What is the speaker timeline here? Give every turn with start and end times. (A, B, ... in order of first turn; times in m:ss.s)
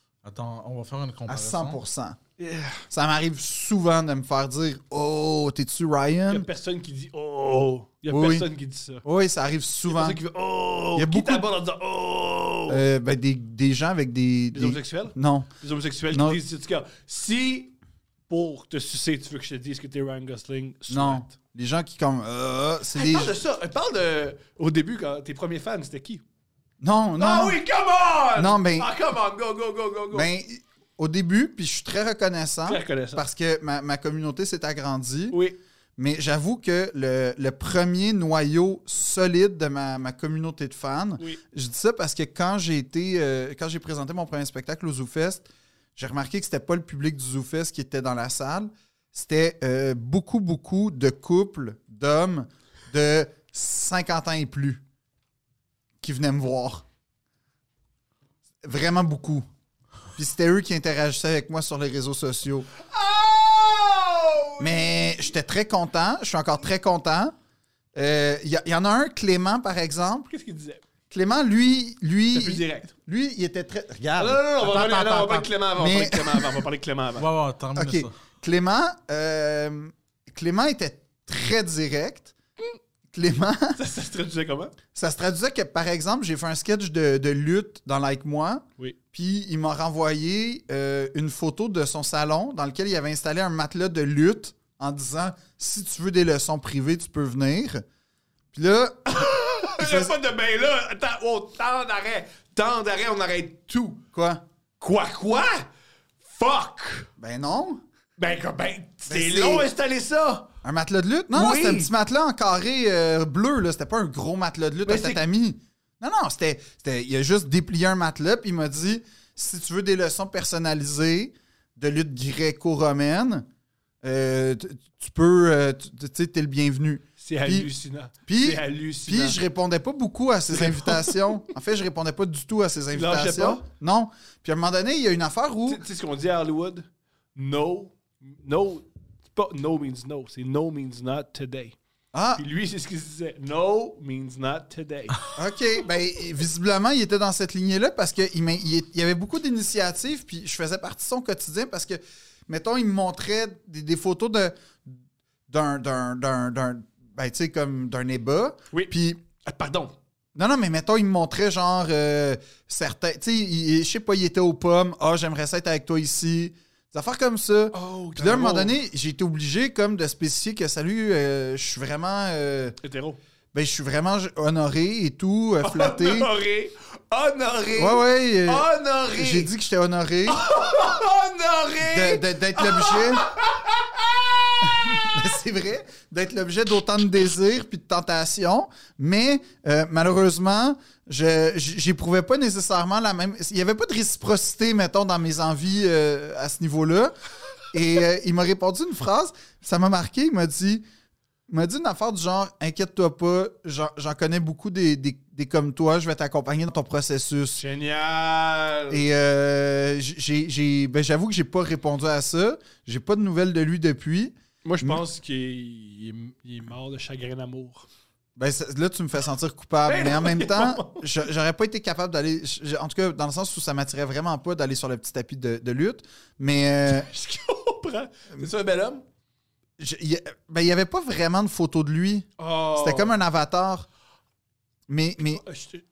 0:00.2-0:01.8 A
0:01.3-0:02.2 B
0:02.4-0:02.8 C
0:02.9-0:06.5 B
0:06.3-0:09.0 C
0:08.1-0:08.5 B
0:09.0-0:10.2 B
0:09.9-0:12.8 C
0:10.9-0:11.4 B
0:12.7-0:15.5 B
0:14.5-0:17.7 C
0:16.1-0:16.4 B
0:18.3-0:21.3 C
0:20.9-0:23.3 B
0:22.9-0:26.2 C
0:26.8-0:27.6 B
0:27.2-0:30.3 C
0:28.4-0:28.9 B
0:30.1-0:35.4 B
0:32.7-0:33.2 C
0:35.3-0:35.6 C
0:36.0-0:54.8 B
0:56.0-0:56.8 B
0:58.6-0:59.4 B
1:00.2-1:02.7 B
1:02.8-1:04.7 C
1:04.6-1:07.3 B
1:07.9-1:10.3 B
1:10.3-1:10.8 C
1:11.1-1:14.4 B
1:12.3-1:12.9 C
1:14.2-1:17.3 C
1:14.6-1:15.5 A
1:15.8-1:16.6 B
1:17.2-1:18.1 A
1:17.7-1:22.3 B
1:23.1-1:23.8 B
1:23.8-1:24.7 C
1:24.9-1:37.8 B
1:38.5-1:40.2 B
1:39.1-1:44.0 C
1:44.1-1:44.4 B
1:44.8-1:45.7 C
1:46.2-1:47.1 C
1:47.2-1:47.8 B
1:48.2-1:50.5 C
1:49.1-1:49.7 B
1:50.6-2:03.4 B
1:51.3-1:51.9 C
1:54.8-1:55.2 C
2:04.0-2:07.7 B
2:07.2-2:09.4 C
2:08.3-2:15.8 B
2:10.5-2:11.3 C
2:12.9-2:13.6 C
2:15.7-2:21.8 C
2:22.1-2:22.4 B
2:22.4-2:25.2 C
2:25.3-2:35.0 B
2:35.5-2:39.2 B
2:38.7-2:39.9 C
2:40.3-2:52.8 B
2:47.7-2:48.7 C
2:52.8-2:53.2 C
2:53.5-2:56.3 B
2:55.6-2:59.5 C
2:57.8-3:00.4 B
3:00.3-3:05.2 C
3:01.8-3:03.3 B
3:04.6-3:17.1 B
3:17.7-3:20.8 B
3:21.5-3:27.6 B
3:27.6-3:29.0 C
3:28.9-3:35.0 B
3:34.6-3:37.9 C
3:38.4-3:47.1 B
3:39.9-3:41.1 C
3:46.9-3:49.0 C
3:49.8-3:53.9 B
3:52.4-3:53.2 C
3:54.9-3:55.4 B
3:55.2-3:55.8 C